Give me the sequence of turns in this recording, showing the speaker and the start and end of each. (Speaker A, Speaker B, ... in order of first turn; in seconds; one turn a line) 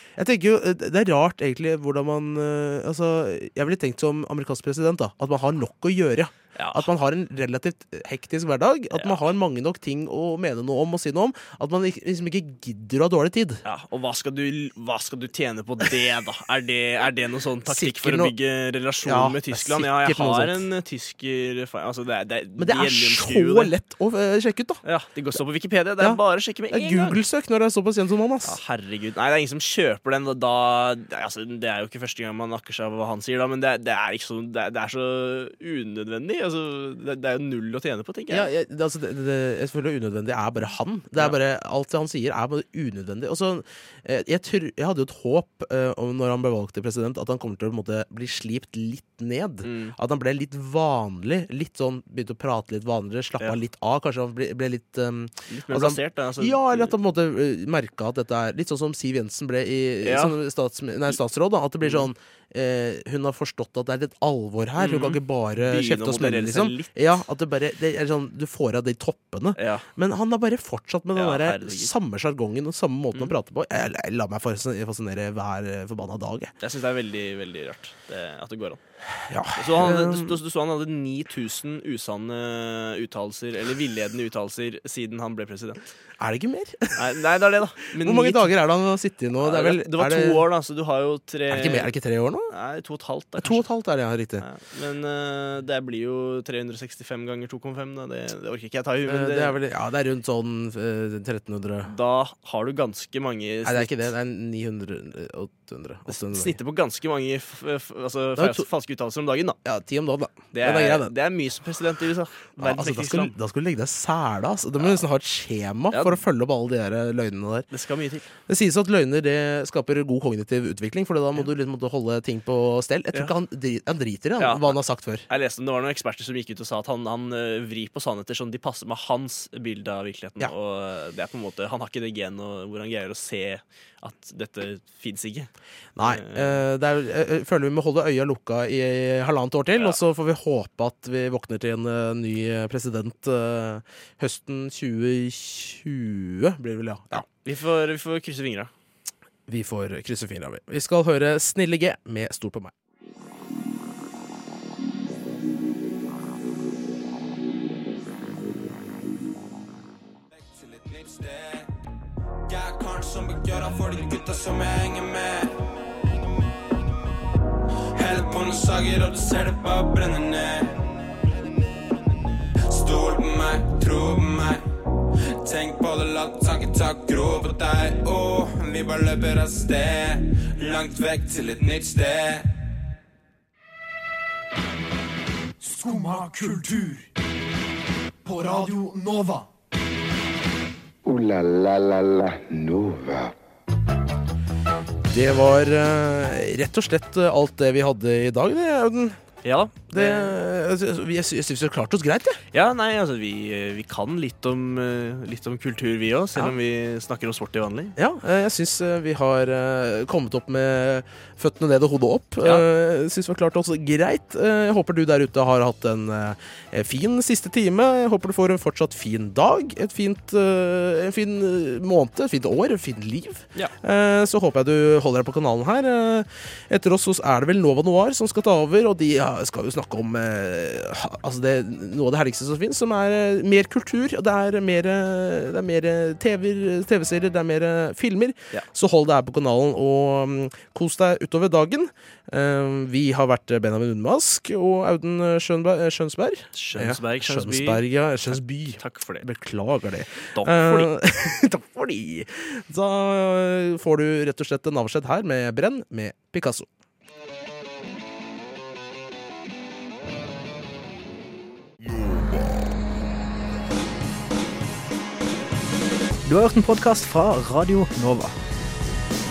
Speaker A: 0.2-13.6
Speaker B: 6.6-6.9
Speaker B: 8.9-9.2
Speaker B: 13.7-23.7
Speaker A: 17.7-18.3
Speaker A: 19.0-20.7
Speaker A: 22.6-24.8
Speaker B: 24.9-27.2
Speaker A: 26.7-28.6
Speaker B: 28.4-38.5
Speaker A: 38.3-76.5
Speaker B: 49.6-50.0
Speaker B: 55.5-56.9
Speaker B: 60.0-60.4
Speaker B: 61.8-62.1
Speaker B: 64.8-67.0
Speaker B: 69.6-69.9
Speaker B: 71.2-71.9
Speaker B: 76.6-78.8
Speaker A: 79.3-80.4
Speaker B: 79.6-85.9
Speaker A: 86.2-87.1
Speaker B: 87.0-88.5
Speaker A: 88.0-90.4
Speaker B: 89.4-91.9
Speaker A: 91.5-92.5
Speaker B: 92.5-93.7
Speaker A: 93.4-94.5
Speaker B: 94.4-99.5
Speaker A: 99.1-101.9
Speaker B: 101.9-104.1
Speaker A: 103.7-106.6
Speaker B: 106.1-109.6
Speaker A: 108.4-108.7
Speaker A: 109.7-111.1
Speaker B: 110.5-113.3
Speaker A: 112.6-117.7
Speaker B: 115.9-116.2
Speaker B: 117.7-118.3
Speaker A: 118.5-125.3
Speaker B: 124.4-124.8
Speaker B: 125.3-135.5
Speaker A: 136.0-147.2
Speaker B: 136.0-136.6
Speaker B: 147.2-148.7
Speaker A: 149.5-152.7
Speaker C: 160.3-161.7
Speaker C: 162.5-165.6
Speaker C: 168.0-170.8
Speaker C: 172.7-174.7
Speaker C: 175.4-182.5
Speaker D: 185.6-187.1
Speaker D: 188.2-189.5
Speaker E: 191.1-193.3
Speaker A: 195.1-199.2
Speaker B: 199.4-200.3
Speaker A: 199.9-202.4
Speaker B: 202.5-207.9
Speaker A: 208.0-256.7
Speaker B: 246.6-249.2
Speaker B: 250.3-250.9
Speaker F: 266.3-268.3